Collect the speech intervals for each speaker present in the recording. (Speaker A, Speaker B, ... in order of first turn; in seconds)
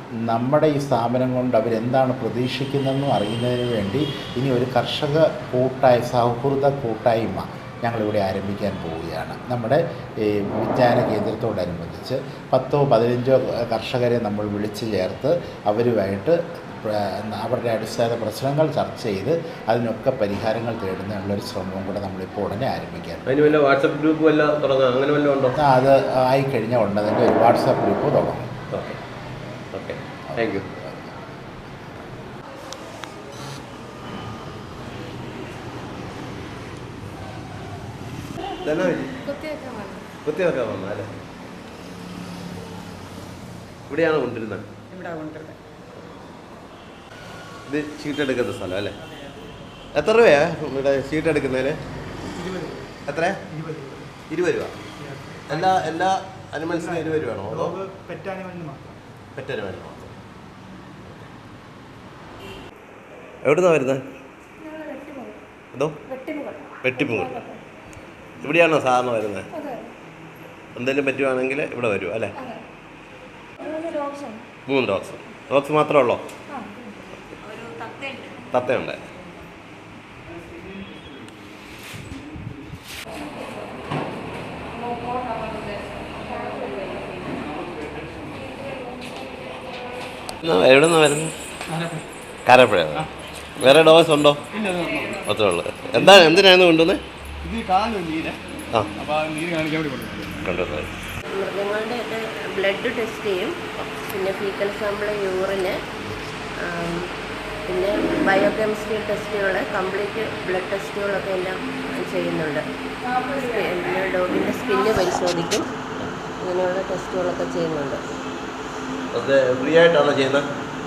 Speaker A: 0.3-23.2, 25.6-28.5, 30.3-31.0
Speaker B: 23.3-25.6, 28.7-29.0, 29.7-30.7, 38.6-39.2, 40.2-41.1, 43.9-44.7, 47.7-48.9, 50.0-51.8, 53.1-53.4, 54.3-54.7, 55.5-57.8, 59.4-60.2, 63.4-64.0, 65.7-66.0, 66.8-67.5, 68.4-69.5, 70.8-72.4, 74.7-76.2, 78.5-79.1, 90.4-91.3, 92.5-94.4, 95.2-97.0, 100.4-100.9, 119.1-120.5
Speaker C: 39.2-40.1, 44.9-45.5, 64.6-65.4, 66.1-67.6, 69.5-69.9, 73.6-74.4, 84.8-87.2, 88.6-89.2
Speaker D: 52.4-52.9, 53.5-54.1, 55.0-55.8, 57.5-59.0, 88.0-88.3, 91.7-92.0, 94.5-95.3, 96.0-96.3, 97.4-98.4, 99.0-100.4
Speaker E: 77.5-78.2, 101.3-105.8, 106.6-107.1, 107.7-115.7, 116.4-118.0